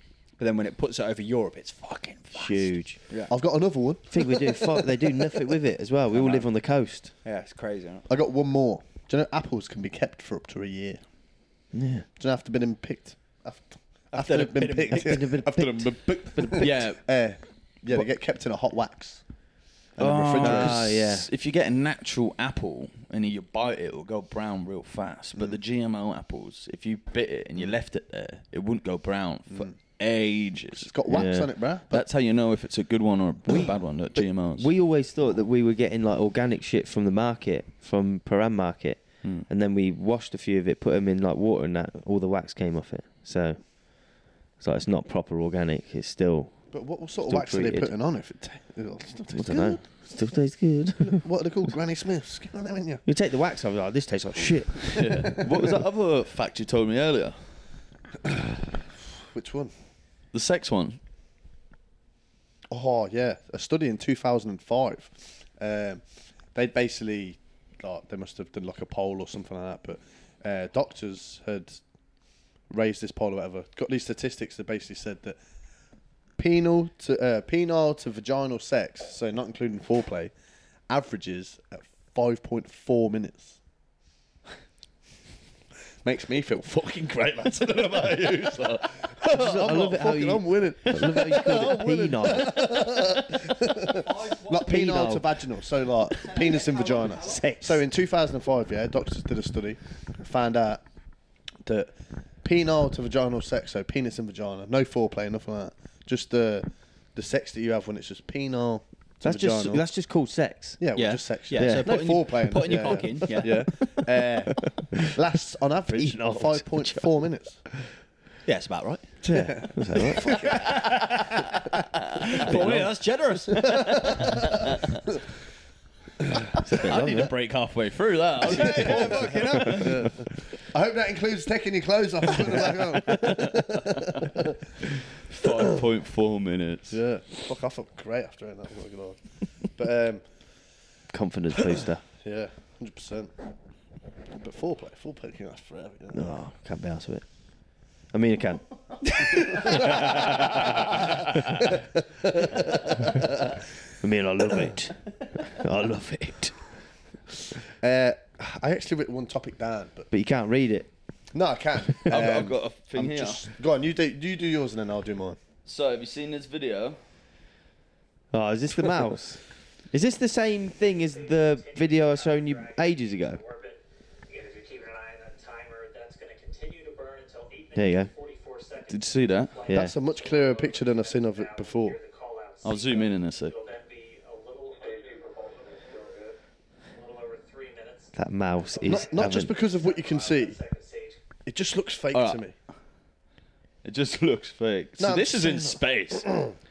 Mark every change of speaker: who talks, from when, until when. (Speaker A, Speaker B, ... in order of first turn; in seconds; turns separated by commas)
Speaker A: 0.4-3.3, Speaker B: 2.3-3.0, Speaker C: 3.3-4.6, Speaker B: 4.1-7.1, Speaker A: 6.1-6.5, Speaker A: 7.2-8.1, Speaker C: 8.1-11.0, Speaker B: 11.7-12.1, Speaker C: 12.2-19.2, Speaker A: 14.1-15.2, Speaker B: 14.9-16.7, Speaker D: 16.5-17.0, Speaker C: 20.0-20.8, Speaker D: 20.0-30.9, Speaker B: 20.0-21.3, Speaker C: 30.8-32.0, Speaker B: 31.1-31.5, Speaker D: 31.9-34.7, Speaker B: 34.6-46.6, Speaker C: 46.7-49.8, Speaker B: 47.2-47.9, Speaker B: 49.3-51.2, Speaker C: 51.0-53.0, Speaker B: 53.1-55.8, Speaker D: 54.9-57.4, Speaker C: 58.2-58.6, Speaker C: 59.3-59.7, Speaker D: 60.3-61.0, Speaker C: 62.7-66.0, Speaker C: 66.5-71.8, Speaker C: 72.7-75.4, Speaker C: 76.4-80.3, Speaker C: 80.9-83.6, Speaker C: 86.0-100.8, Speaker B: 89.3-92.8, Speaker A: 94.0-94.9, Speaker B: 94.5-95.4, Speaker A: 96.2-97.5, Speaker B: 97.2-97.8, Speaker C: 101.7-101.9, Speaker C: 102.4-109.8, Speaker B: 109.2-110.8, Speaker C: 110.8-117.6, Speaker A: 111.0-113.6, Speaker B: 111.6-112.0, Speaker B: 112.6-113.6, Speaker B: 115.9-117.1, Speaker A: 118.5-119.1, Speaker C: 119.2-120.9, Speaker B: 119.2-120.5, Speaker A: 120.5-121.6, Speaker A: 122.3-123.8, Speaker D: 122.5-122.9, Speaker C: 123.6-124.5, Speaker D: 123.6-124.7, Speaker B: 126.6-127.3, Speaker D: 126.7-130.1, Speaker C: 128.4-134.6, Speaker A: 128.7-129.8, Speaker D: 133.1-133.6, Speaker D: 135.2-137.0, Speaker C: 136.9-140.2, Speaker B: 141.1-142.0, Speaker C: 142.2-143.3, Speaker C: 144.3-146.4, Speaker B: 146.1-147.2, Speaker B: 148.1-148.6, Speaker A: 149.0-149.7, Speaker C: 149.2-150.9, Speaker B: 149.2-150.7, Speaker C: 151.6-153.5, Speaker B: 154.0-156.6, Speaker C: 157.8-160.1, Speaker B: 160.1-160.9, Speaker C: 161.3-165.4, Speaker D: 162.0-163.5, Speaker D: 165.7-167.0, Speaker B: 168.3-173.4, Speaker E: 171.1-186.4, Speaker B: 177.8-178.1, Speaker D: 178.9-179.6, Speaker B: 179.7-179.9, Speaker C: 179.7-182.0, Speaker D: 182.6-183.5, Speaker E: 186.9-191.2, Speaker B: 188.2-189.5, Speaker C: 188.9-190.6, Speaker C: 191.5-192.5, Speaker D: 192.1-192.4, Speaker D: 193.8-196.3, Speaker C: 195.0-196.5